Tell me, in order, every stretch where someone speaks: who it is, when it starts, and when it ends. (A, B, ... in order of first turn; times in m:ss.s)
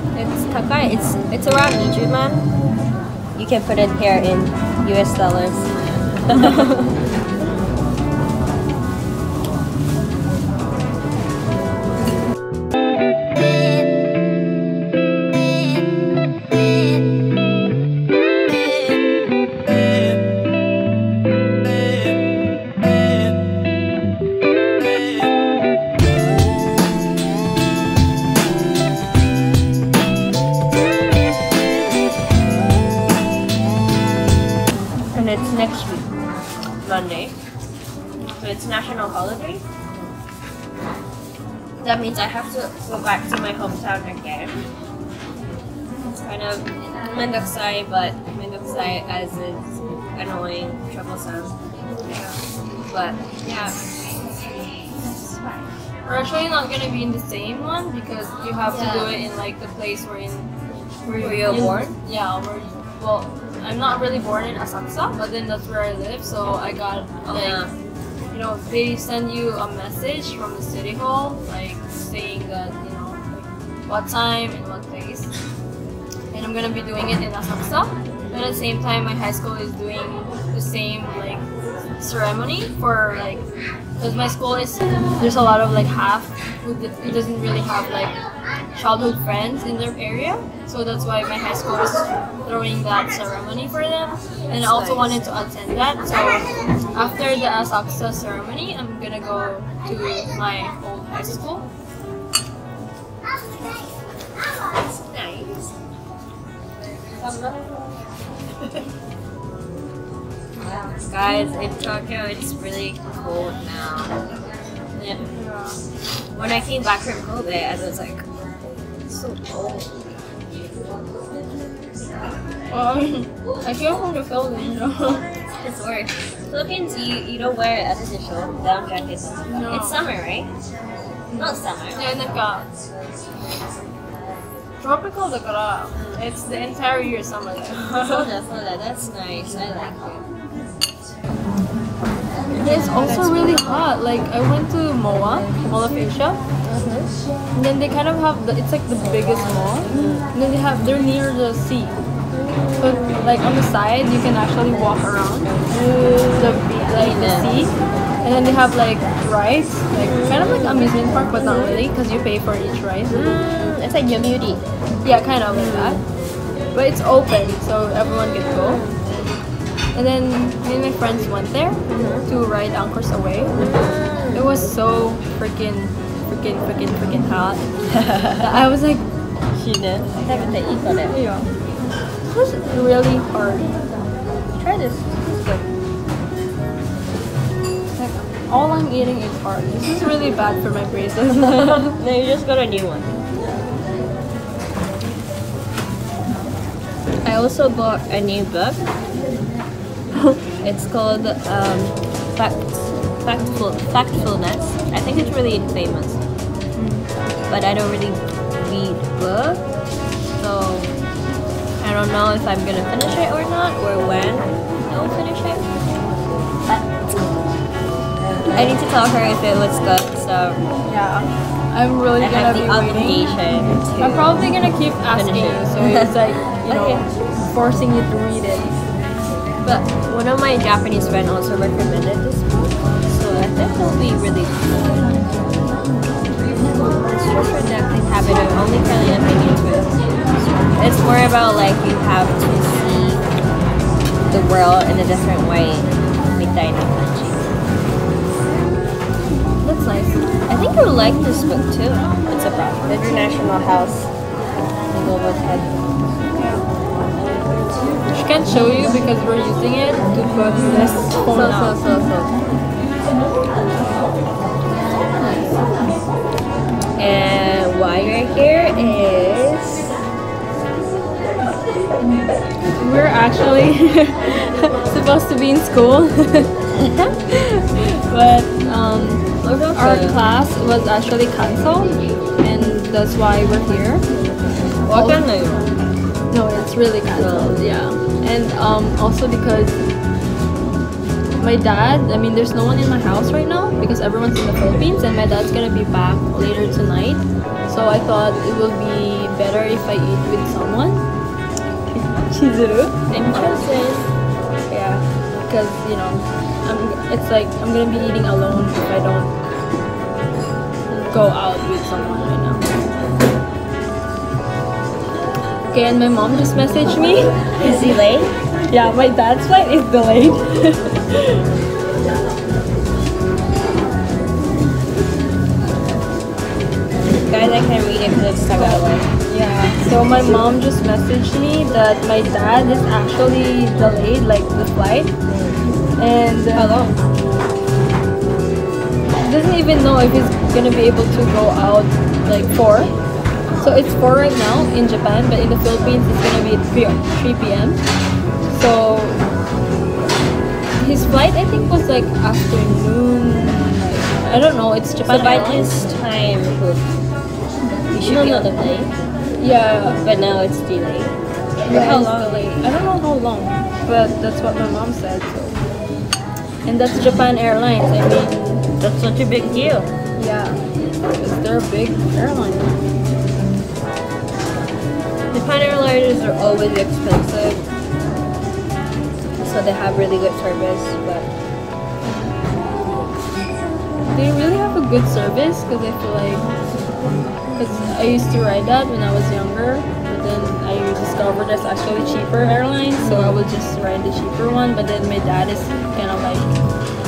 0:00.1-0:02.5 A
0:03.4-0:05.7 A
0:06.2-0:06.8 A
0:35.1-0:36.1 A
0:36.8-0:37.3 A
0:38.4-0:39.6 A
0:41.8-0:44.5 A
0:46.1-0:51.6 A
0:52.1-0:52.4 A
0:52.9-0:54.0 A
0:54.5-0:55.6 A
0:56.0-1:00.5 B
0:58.7-0:59.2 A
1:01.0-1:07.6 B
1:01.1-1:02.0 A
1:07.3-1:07.7 A
1:08.3-1:15.3 B
1:16.3-1:21.5 B
1:22.0-1:23.5 B
1:24.0-1:28.1 B
1:28.7-1:41.6 B
1:34.5-1:35.2 A
1:44.6-1:45.7 A
1:47.2-1:47.6 A
1:50.8-1:54.2 A
1:55.0-1:55.2 A
1:55.3-1:55.8 B
1:56.3-1:58.2 A
1:59.1-2:00.0 A
2:02.7-2:05.3 B
2:05.6-2:10.5 A
2:09.5-2:10.0 B
2:11.3-2:12.7 B
2:11.4-2:12.1 A
2:14.8-2:18.3 B
2:15.9-2:16.2 A
2:17.7-2:20.3 A
2:22.5-2:23.8 A
2:22.6-2:26.4 B
2:26.7-2:27.1 A
2:27.5-2:32.0 B
2:29.9-2:30.3 A
2:32.3-2:33.3 A
2:32.8-2:35.6 B
2:35.7-2:37.6 A
2:36.4-2:43.2 B
2:40.0-2:41.7 A
2:43.1-2:44.6 A
2:45.0-2:46.0 B
2:45.5-2:46.0 A
2:46.7-2:48.8 B
2:48.5-2:49.0 A
2:49.9-2:53.6 B
2:51.9-2:52.3 A
2:53.5-2:54.5 A
2:54.3-2:57.7 B
2:57.9-2:58.5 A
2:58.4-2:59.1 B
2:59.6-3:01.2 A
3:01.1-3:01.5 B
3:02.3-3:03.8 B
3:04.5-3:05.6 A
3:08.0-3:12.0 B
3:11.3-3:13.1 A
3:17.2-3:18.8 A
3:20.6-3:26.2 A
3:26.7-3:27.1 B
3:27.5-3:29.6 A
3:30.4-3:30.9 A
3:31.8-3:35.6 A
3:38.5-3:40.6 A
3:40.9-3:43.3 B
3:42.2-3:44.4 A
3:44.0-3:48.7 B
3:45.1-3:46.1 A
3:46.7-3:47.0 A
3:49.6-3:55.2 A
3:57.0-4:03.3 A
4:04.3-4:07.5 A
4:09.6-4:10.2 B
4:10.5-4:14.1 A
4:14.9-4:15.8 A
4:18.1-4:21.8 B
4:21.3-4:22.4 A
4:27.0-4:29.9 A
4:32.8-4:36.5 B
4:36.7-4:37.2 A
4:37.3-4:44.0 B
4:39.4-4:40.2 A
4:44.9-4:45.2 B
4:44.9-4:45.7 A
4:46.3-4:49.8 B
4:47.2-4:47.6 A
4:51.4-5:01.0 B
5:01.9-5:04.0 B
5:03.2-5:04.0 A
5:04.7-5:09.3 B
5:11.0-5:12.7 B
5:15.7-5:17.3 B
5:17.6-5:18.3 A
5:18.7-5:21.4 B
5:27.2-5:29.1 A
5:28.5-5:35.1 B
5:35.3-5:35.6 A
5:36.0-5:36.8 B
5:36.6-5:37.0 A
5:39.2-5:42.9 B
5:43.6-5:47.8 B
5:48.5-5:49.2 B
5:50.8-5:55.7 B
5:55.0-5:56.8 A
5:57.9-5:58.9 A
5:58.0-5:58.5 B
5:59.4-6:00.0 B
6:00.0-6:02.6 A
6:01.6-6:05.6 B
6:06.6-6:08.6 B
6:08.8-6:09.9 A
6:10.2-6:12.7 B
6:15.3-6:17.6 A
6:19.4-6:21.3 A
6:24.1-6:26.4 B
6:27.6-6:36.5 B
6:33.0-6:33.4 A